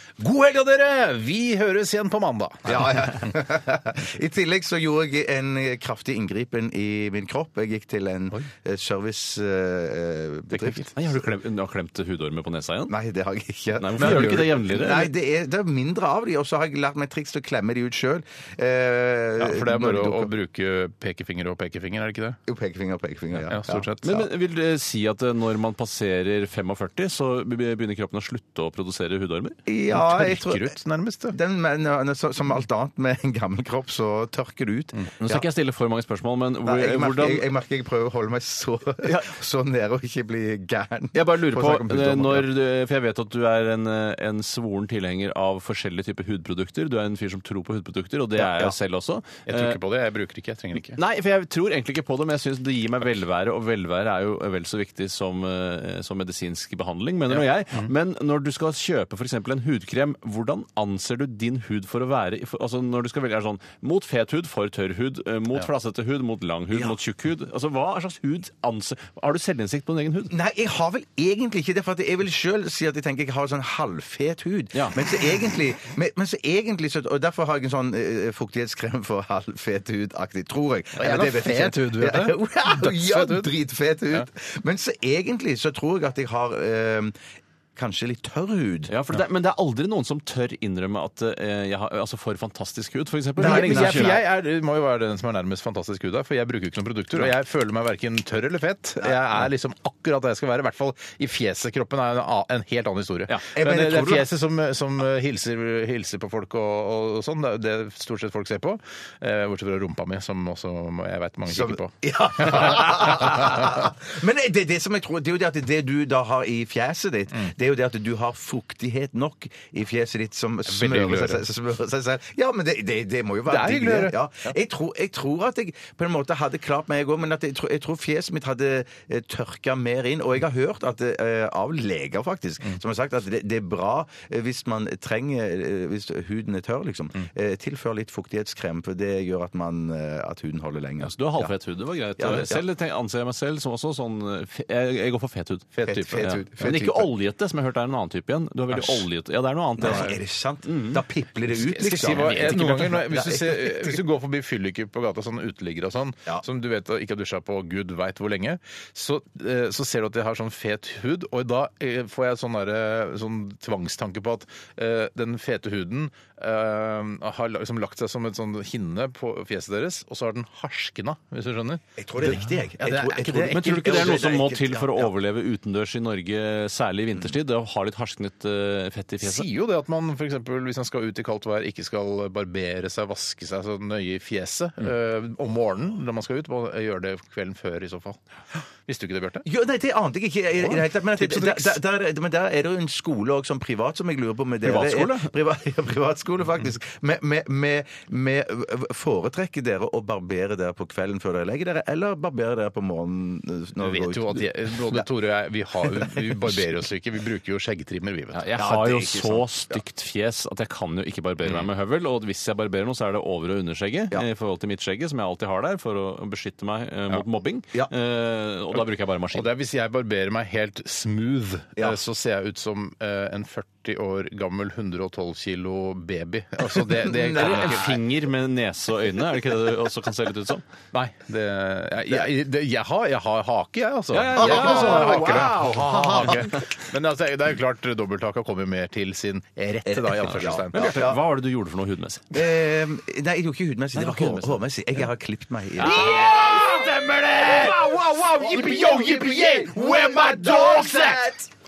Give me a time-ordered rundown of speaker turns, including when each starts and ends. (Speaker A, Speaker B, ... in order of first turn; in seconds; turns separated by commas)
Speaker A: 0.2-3.3, Speaker B: 2.6-11.1, Speaker A: 10.5-10.9, Speaker C: 10.9-12.9, Speaker B: 12.9-20.3, Speaker C: 13.8-15.1, Speaker A: 14.0-14.6, Speaker A: 19.4-22.4, Speaker B: 22.4-23.9, Speaker A: 23.4-24.3, Speaker C: 24.0-29.6, Speaker B: 29.6-30.7, Speaker A: 29.9-31.4, Speaker B: 31.3-35.5, Speaker C: 35.2-37.5, Speaker B: 36.6-42.5, Speaker C: 39.0-39.3, Speaker C: 41.1-49.8, Speaker B: 48.4-48.7, Speaker A: 49.5-51.0, Speaker C: 50.7-70.3, Speaker A: 57.3-57.9, Speaker B: 70.3-87.2, Speaker A: 81.0-83.5, Speaker B: 87.8-88.9, Speaker C: 88.9-94.2, Speaker B: 93.4-94.2, Speaker A: 93.4-113.6, Speaker B: 103.5-104.3, Speaker B: 111.5-141.5, Speaker A: 120.7-121.5, Speaker A: 123.5-124.5, Speaker C: 141.0-151.0, Speaker B: 142.2-142.6, Speaker B: 145.8-147.1, Speaker B: 148.7-149.1, Speaker B: 149.8-154.0, Speaker A: 149.8-150.2, Speaker A: 151.5-174.2, Speaker C: 152.0-152.8, Speaker B: 172.0-175.1, Speaker C: 173.5-179.4, Speaker A: 179.2-188.2, Speaker A: 188.8-189.4, Speaker B: 189.4-205.1, Speaker A: 190.6-191.8, Speaker C: 194.6-195.3, Speaker A: 203.8-208.4, Speaker B: 205.8-206.6, Speaker C: 208.3-219.5, Speaker B: 208.6-209.8, Speaker B: 217.1-217.9, Speaker A: 219.3-228.0, Speaker B: 226.6-227.9, Speaker C: 227.3-230.6, Speaker A: 230.9-240.9, Speaker C: 234.1-236.6, Speaker B: 234.3-235.7, Speaker B: 239.8-241.2, Speaker C: 240.3-242.3, Speaker B: 242.3-251.5, Speaker C: 243.9-244.6, Speaker C: 245.8-246.7, Speaker A: 245.8-251.3